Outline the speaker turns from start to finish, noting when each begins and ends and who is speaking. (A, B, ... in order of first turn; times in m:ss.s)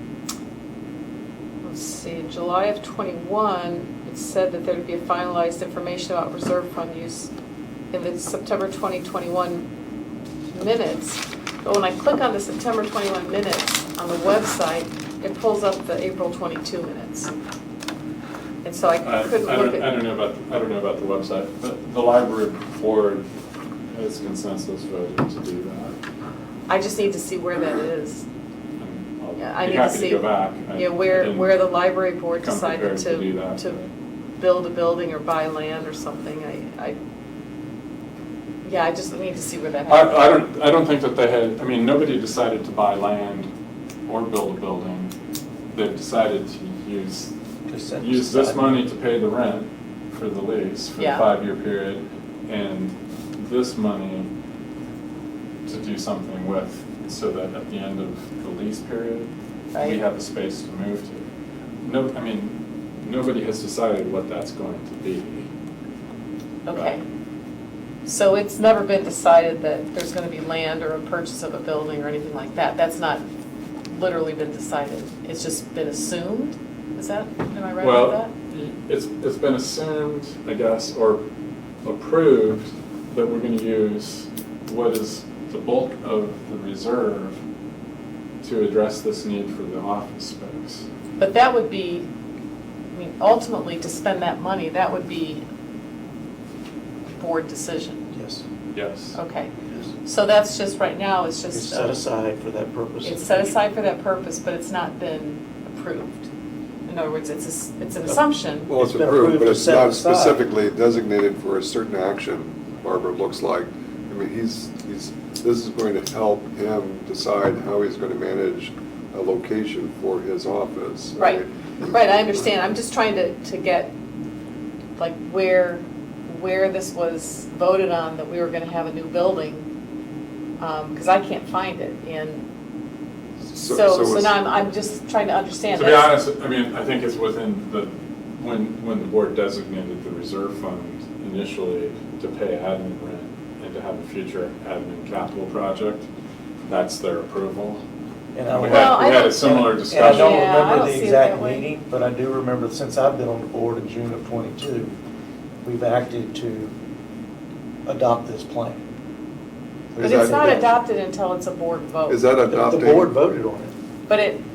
0:01.6-0:07.3 A
0:07.9-0:09.7 A
0:10.5-0:17.3 A
0:18.6-0:19.9 A
0:19.0-0:23.3 B
0:23.9-0:26.0 B
0:26.7-0:28.2 A
0:28.8-0:31.6 B
0:29.4-0:33.8 A
0:32.4-0:33.9 B
0:34.4-0:37.0 A
0:38.6-0:40.2 A
0:39.9-0:43.5 B
0:44.1-0:45.1 B
0:45.7-0:47.3 B
0:47.7-0:48.8 C
0:48.0-0:54.3 B
0:51.0-0:51.3 A
0:55.7-1:01.2 B
0:59.7-1:00.0 A
1:01.8-1:05.5 B
1:06.7-1:07.0 A
1:08.0-1:13.2 A
1:13.9-1:18.3 A
1:17.8-1:21.2 B
1:21.8-1:27.4 B
1:28.4-1:30.9 B
1:31.2-1:32.1 A
1:32.9-1:35.4 A
1:37.2-1:38.0 A
1:38.1-1:38.4 C
1:38.7-1:39.2 B
1:39.2-1:39.5 A
1:40.0-1:42.0 A
1:41.5-1:43.6 C
1:43.0-1:46.3 A
1:46.9-1:48.7 A
1:48.1-1:50.4 C
1:48.7-2:01.9 D
2:01.2-2:03.9 A
2:05.0-2:09.7 A
2:10.6-2:12.4 A
2:13.5-2:14.4 D
2:13.7-2:16.2 A
2:15.7-2:26.1 B
2:26.7-2:27.8 B
2:28.4-2:34.9 C
2:28.5-2:30.5 B
2:28.7-2:31.7 A
2:35.6-2:36.7 C
2:37.9-2:38.8 C
2:39.9-2:40.6 C
2:40.0-2:40.6 D
2:40.0-2:42.2 A
2:42.1-2:43.2 D
2:42.5-2:43.7 C
2:44.1-2:44.4 A